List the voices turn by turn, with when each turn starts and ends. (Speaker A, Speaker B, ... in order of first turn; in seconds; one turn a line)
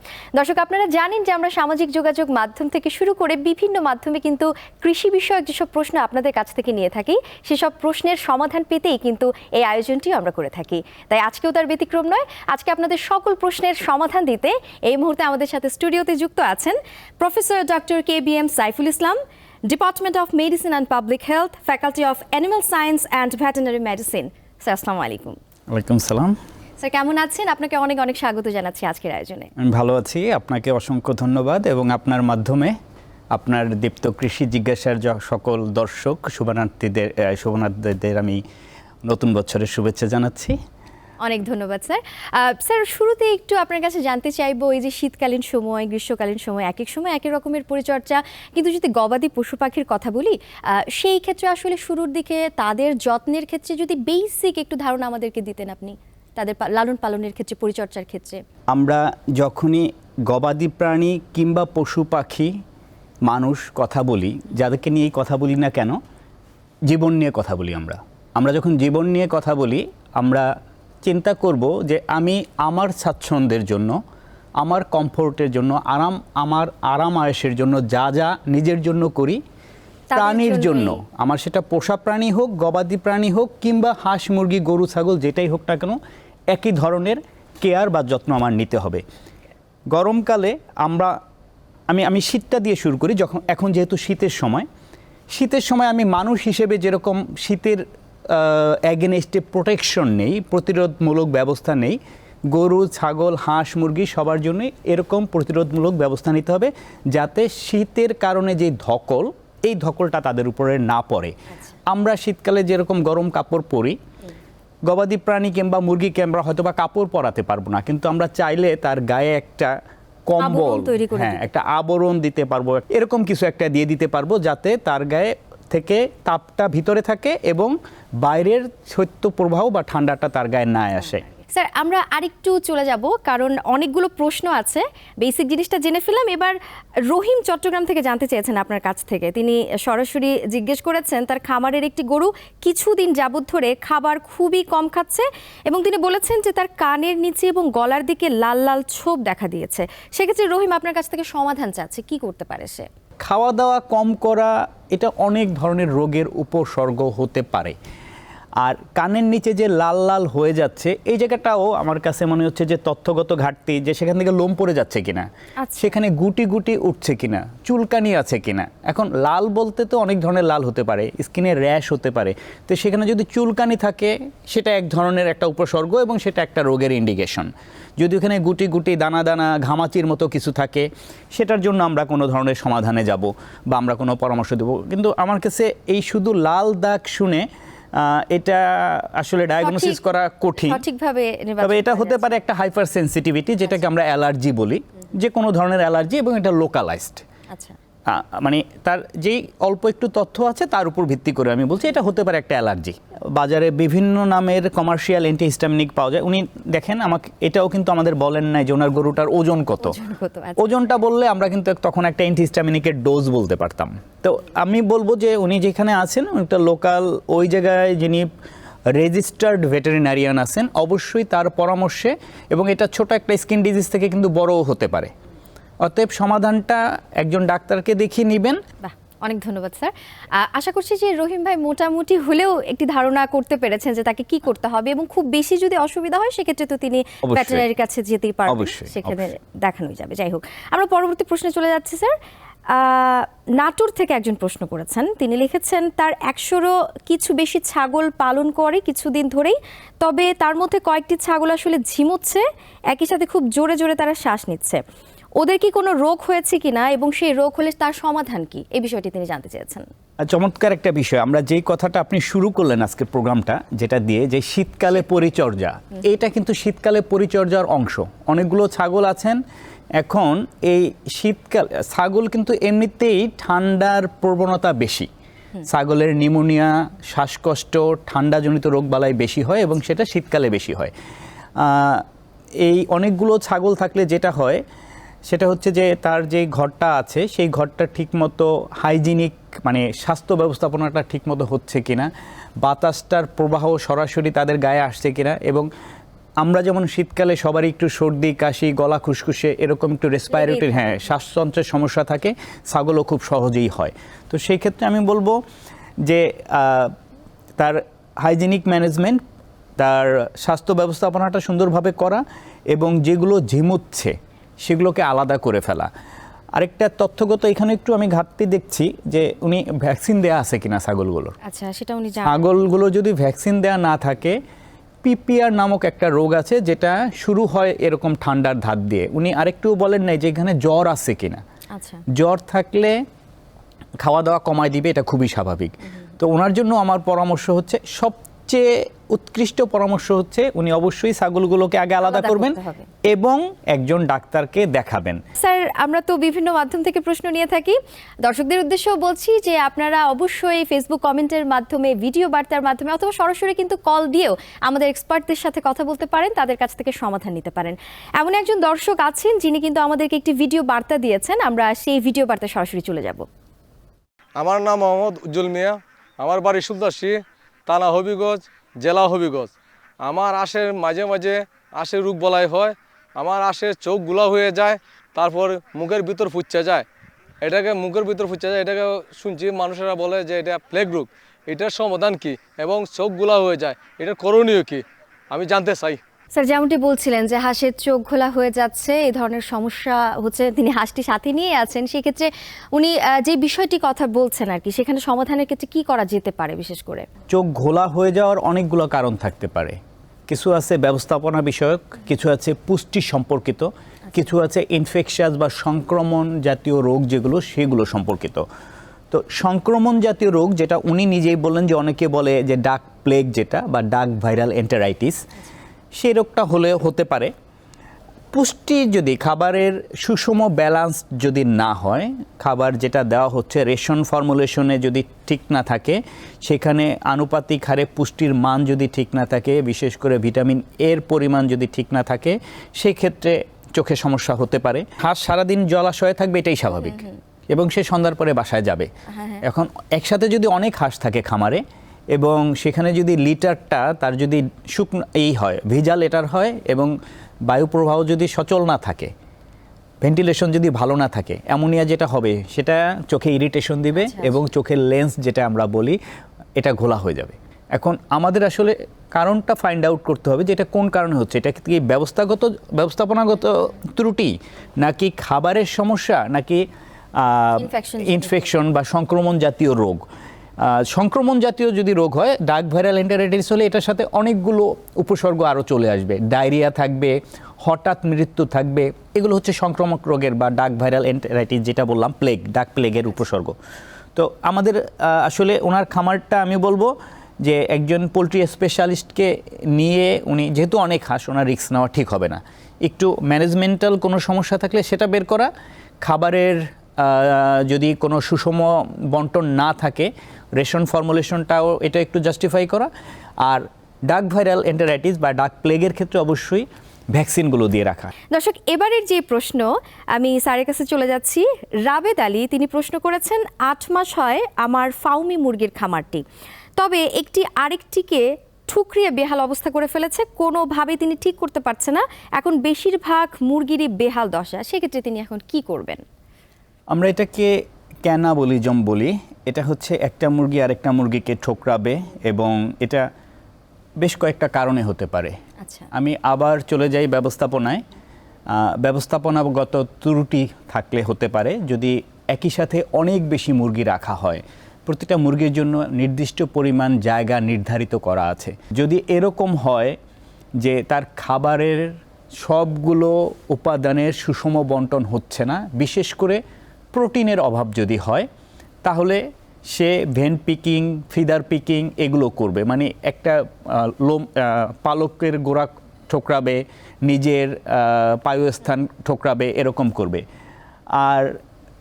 Speaker A: 0.3-19.2
Speaker A: 19.7-25.4
Speaker B: 25.7-26.4
Speaker A: 26.8-29.5
Speaker B: 29.6-32.8
Speaker B: 33.3-38.4
Speaker B: 39.1-40.6
Speaker A: 41.2-58.4
Speaker B: 58.7-62.5
Speaker B: 63.3-66.0
Speaker B: 66.9-70.5
Speaker B: 71.0-74.0
Speaker B: 74.6-79.4
Speaker A: 80.1-81.0
Speaker B: 80.2-86.0
Speaker B: 86.5-89.0
Speaker B: 89.9-91.2
Speaker B: 91.9-94.7
Speaker B: 95.3-102.0
Speaker B: 102.5-111.3
Speaker A: 111.5-111.8
Speaker B: 111.9-114.0
Speaker B: 114.8-119.8
Speaker B: 120.3-131.2
Speaker A: 120.4-121.5
Speaker A: 131.5-136.6
Speaker A: 137.1-152.9
Speaker B: 153.2-157.8
Speaker B: 158.6-190.8
Speaker A: 165.6-165.9
Speaker A: 189.6-190.0
Speaker A: 190.7-192.3
Speaker B: 191.6-197.2
Speaker B: 198.1-210.0
Speaker A: 209.8-210.8
Speaker B: 210.6-218.3
Speaker B: 218.9-225.1
Speaker B: 225.8-228.6
Speaker A: 228.8-242.2
Speaker B: 237.2-237.7
Speaker B: 238.5-239.3
Speaker A: 242.7-254.8
Speaker A: 255.4-259.9
Speaker B: 260.2-269.4
Speaker B: 270.0-275.1
Speaker B: 275.7-280.9
Speaker B: 281.6-282.1
Speaker B: 282.6-284.6
Speaker B: 285.3-292.1
Speaker B: 292.6-295.7
Speaker B: 296.4-305.4
Speaker A: 300.4-300.9
Speaker B: 306.0-306.9
Speaker B: 307.6-309.2
Speaker B: 309.8-315.9
Speaker B: 316.6-321.4
Speaker A: 321.4-322.4
Speaker B: 322.2-324.4
Speaker B: 325.0-331.4
Speaker A: 331.8-332.0
Speaker B: 332.1-333.0
Speaker B: 334.0-345.2
Speaker A: 342.1-343.0
Speaker A: 345.4-363.3
Speaker C: 364.4-376.9
Speaker C: 377.4-386.0
Speaker A: 386.3-397.1
Speaker B: 397.3-399.8
Speaker B: 400.3-408.4
Speaker B: 409.1-415.2
Speaker B: 415.9-417.3
Speaker B: 418.3-438.9
Speaker A: 436.8-437.2
Speaker A: 439.1-439.4
Speaker B: 439.4-446.9
Speaker B: 447.5-449.1
Speaker B: 450.0-456.0
Speaker A: 453.9-454.4
Speaker B: 456.6-466.6
Speaker B: 467.2-470.0
Speaker A: 467.6-468.3
Speaker B: 470.6-483.6
Speaker B: 484.2-495.5
Speaker B: 496.0-502.9
Speaker B: 503.4-508.1
Speaker A: 508.3-516.2
Speaker A: 516.8-526.0
Speaker B: 526.9-533.1
Speaker B: 534.0-535.4
Speaker A: 535.6-535.9
Speaker B: 535.9-537.8
Speaker B: 538.5-550.0
Speaker B: 550.6-556.4
Speaker B: 556.9-558.3
Speaker B: 558.8-570.2
Speaker B: 571.0-571.4